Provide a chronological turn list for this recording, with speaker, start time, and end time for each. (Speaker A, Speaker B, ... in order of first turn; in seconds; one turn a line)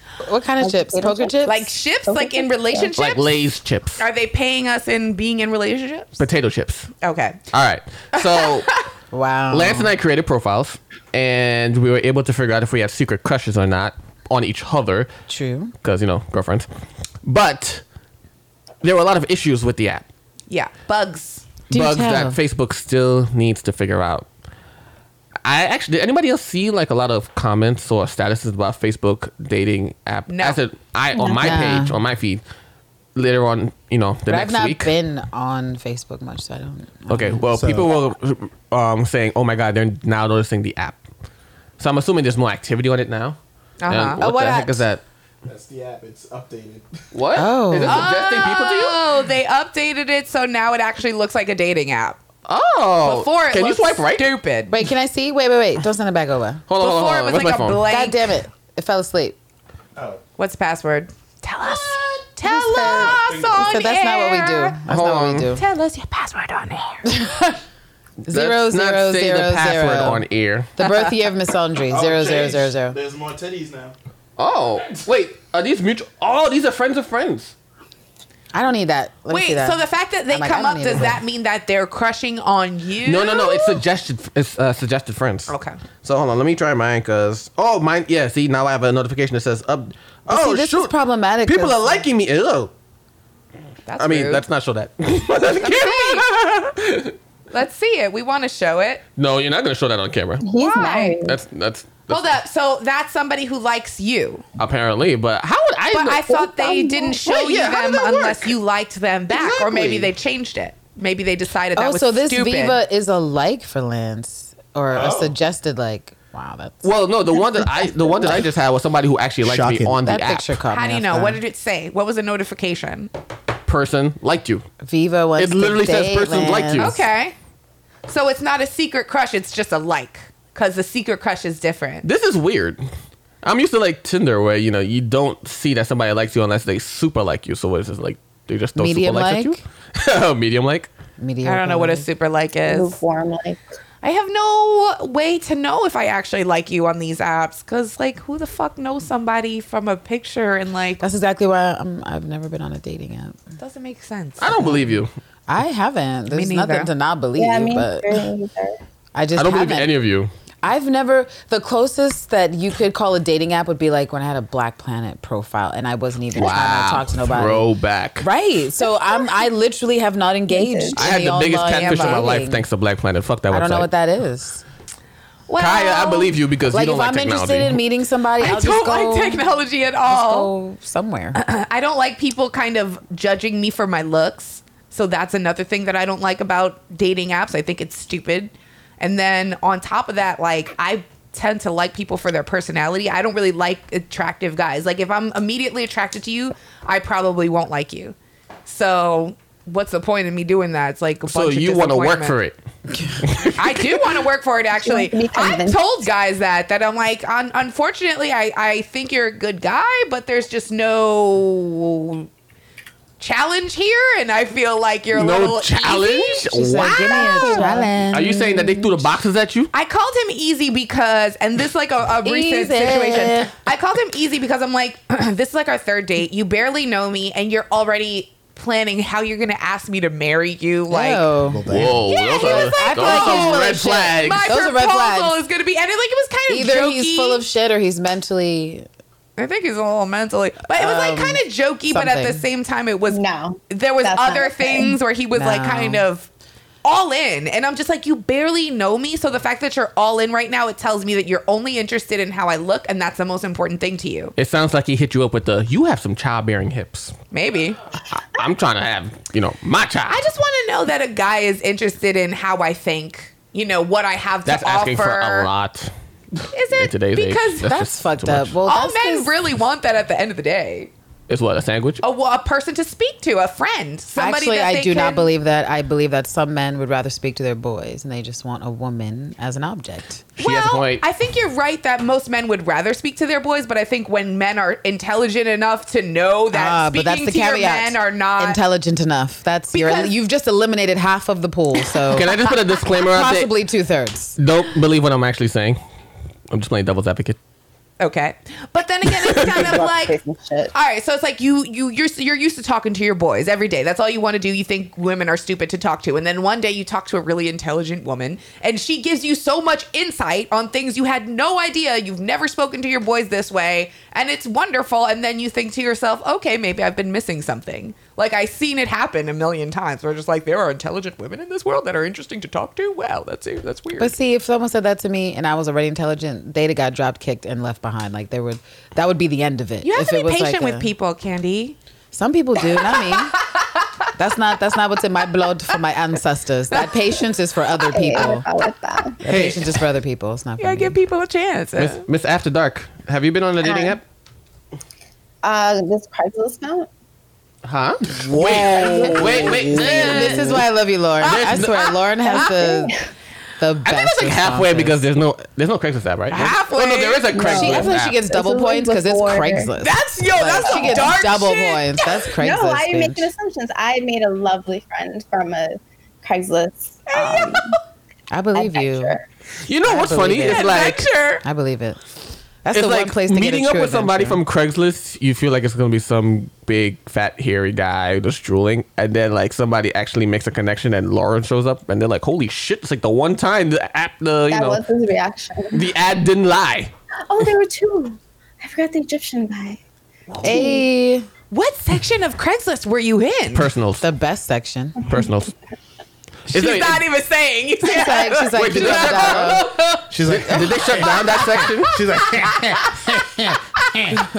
Speaker A: 0.2-1.7
Speaker B: 0.6-1.4
Speaker C: 1.4-3.4
Speaker B: 2.1-2.9
Speaker D: 3.0-4.0
Speaker C: 4.0-6.2
Speaker D: 6.2-6.9
Speaker C: 7.0-7.4
Speaker D: 7.5-8.7
Speaker A: 9.1-9.9
Speaker D: 9.5-15.1
Speaker A: 15.3-15.7
Speaker D: 15.8-16.7
Speaker D: 17.2-17.8
Speaker D: 18.8-20.1
Speaker C: 20.5-21.5
Speaker D: 21.7-24.3
Speaker A: 21.7-22.4
Speaker D: 25.4-32.4
Speaker C: 30.3-30.6
Speaker B: 31.1-31.6
Speaker A: 31.4-32.0
Speaker D: 33.2-34.9
Speaker A: 34.3-37.3
Speaker D: 37.1-41.0
Speaker E: 37.3-37.9
Speaker D: 41.8-45.0
Speaker C: 43.8-44.8
Speaker E: 45.5-46.9
Speaker D: 47.1-49.0
Speaker A: 47.4-48.1
Speaker C: 47.8-52.2
Speaker D: 52.5-54.3
Speaker C: 53.0-54.7
Speaker A: 54.7-56.7
Speaker D: 56.7-57.8
Speaker C: 56.8-58.3
Speaker A: 57.9-59.4
Speaker C: 60.4-64.8
Speaker A: 62.4-65.6
Speaker E: 62.8-63.8
Speaker D: 64.9-65.5
Speaker C: 65.5-67.1
Speaker A: 67.0-67.6
Speaker A: 68.3-70.2
Speaker D: 68.3-70.7
Speaker A: 70.8-73.0
Speaker C: 70.8-71.1
Speaker E: 71.9-73.9
Speaker D: 74.4-77.5
Speaker A: 78.5-81.2
Speaker C: 79.3-83.8
Speaker D: 83.0-90.9
Speaker C: 85.5-85.8
Speaker A: 90.3-92.0
Speaker D: 91.5-92.7
Speaker C: 93.9-94.4
Speaker D: 94.0-97.2
Speaker C: 95.6-96.3
Speaker C: 97.5-99.0
Speaker D: 99.2-100.4
Speaker B: 100.4-101.4
Speaker C: 100.5-101.2
Speaker D: 101.2-102.3
Speaker C: 102.1-104.4
Speaker D: 104.6-106.3
Speaker C: 105.9-112.8
Speaker B: 106.3-107.2
Speaker D: 107.3-108.5
Speaker D: 109.3-110.1
Speaker A: 111.8-118.4
Speaker E: 114.9-115.3
Speaker D: 116.8-120.5
Speaker E: 119.4-120.0
Speaker A: 120.0-121.2
Speaker C: 120.7-123.1
Speaker E: 121.1-121.4
Speaker D: 123.7-124.7
Speaker A: 124.8-126.9
Speaker D: 125.4-127.0
Speaker C: 126.8-127.3
Speaker C: 128.1-132.1
Speaker D: 132.0-132.8
Speaker D: 133.4-140.9
Speaker A: 138.8-139.6
Speaker A: 141.2-142.1
Speaker C: 141.4-143.0
Speaker B: 142.7-143.6
Speaker C: 144.0-151.0
Speaker A: 151.0-153.4
Speaker C: 153.6-154.6
Speaker D: 154.4-155.1
Speaker A: 154.5-158.2
Speaker C: 156.3-156.9
Speaker B: 157.4-158.8
Speaker A: 159.2-159.9
Speaker D: 159.4-160.3
Speaker A: 160.6-167.7
Speaker D: 166.3-168.3
Speaker A: 168.2-172.6
Speaker B: 170.5-171.1
Speaker D: 171.0-173.9
Speaker C: 171.8-172.3
Speaker A: 173.5-174.6
Speaker C: 175.5-176.4
Speaker D: 175.6-177.8
Speaker A: 176.7-179.5
Speaker C: 178.4-180.5
Speaker A: 180.1-181.4
Speaker C: 181.3-202.4
Speaker D: 201.3-202.6
Speaker D: 203.2-203.8
Speaker C: 203.6-212.3
Speaker B: 204.8-205.9
Speaker C: 213.2-217.9
Speaker D: 215.1-219.7
Speaker A: 216.5-219.1
Speaker C: 219.7-231.3
Speaker A: 222.2-223.5
Speaker A: 230.9-231.6
Speaker E: 231.4-232.1
Speaker D: 231.7-234.5
Speaker C: 232.0-237.4
Speaker A: 232.3-235.4
Speaker A: 236.5-238.9
Speaker C: 239.4-246.3
Speaker A: 240.7-242.4
Speaker B: 243.1-245.0
Speaker A: 245.3-246.0
Speaker C: 246.8-254.3
Speaker D: 254.4-257.1
Speaker C: 257.3-257.8
Speaker D: 258.1-260.2
Speaker C: 260.1-265.5
Speaker D: 264.5-265.9
Speaker D: 266.4-268.6
Speaker C: 266.5-267.7
Speaker A: 267.6-269.3
Speaker C: 268.7-270.9
Speaker D: 271.3-272.0
Speaker C: 272.0-275.3
Speaker A: 274.2-280.2
Speaker C: 280.4-288.6
Speaker D: 280.4-281.0
Speaker A: 286.5-292.4
Speaker C: 289.7-290.1
Speaker D: 292.1-293.5
Speaker A: 293.1-294.4
Speaker D: 294.4-295.8
Speaker D: 296.5-297.4
Speaker C: 298.0-300.2
Speaker B: 299.4-300.7
Speaker C: 300.7-324.1
Speaker A: 324.0-330.9
Speaker C: 329.8-331.8
Speaker A: 332.1-333.4
Speaker A: 334.2-338.5
Speaker B: 337.9-339.2
Speaker A: 339.2-341.0
Speaker D: 339.2-339.7
Speaker C: 340.6-342.1
Speaker D: 341.8-344.0
Speaker B: 343.6-344.0
Speaker B: 345.4-346.9
Speaker D: 347.6-350.6
Speaker B: 348.3-350.6
Speaker A: 348.4-352.9
Speaker D: 351.2-351.9
Speaker C: 351.3-351.6
Speaker B: 352.3-352.9
Speaker A: 353.6-355.0
Speaker D: 353.9-358.2
Speaker C: 356.3-357.4
Speaker B: 357.3-359.7
Speaker A: 357.5-363.3
Speaker C: 359.8-362.2
Speaker B: 360.6-361.1
Speaker B: 362.4-367.8
Speaker C: 367.1-367.7
Speaker A: 368.3-369.2
Speaker B: 368.6-369.2
Speaker D: 369.7-371.1
Speaker A: 369.8-370.9
Speaker C: 370.4-371.4
Speaker A: 371.4-372.0
Speaker A: 372.6-374.4
Speaker D: 372.7-384.8
Speaker B: 384.5-385.9
Speaker D: 385.7-386.9
Speaker B: 387.3-389.8
Speaker C: 390.3-390.7
Speaker A: 390.4-391.3
Speaker B: 390.4-390.8
Speaker C: 391.5-393.7
Speaker D: 393.5-394.0
Speaker A: 394.0-395.0
Speaker D: 395.1-395.5
Speaker C: 396.5-399.7
Speaker D: 396.5-397.1
Speaker A: 397.8-399.7
Speaker D: 398.5-402.0
Speaker E: 400.1-404.2
Speaker C: 401.0-403.1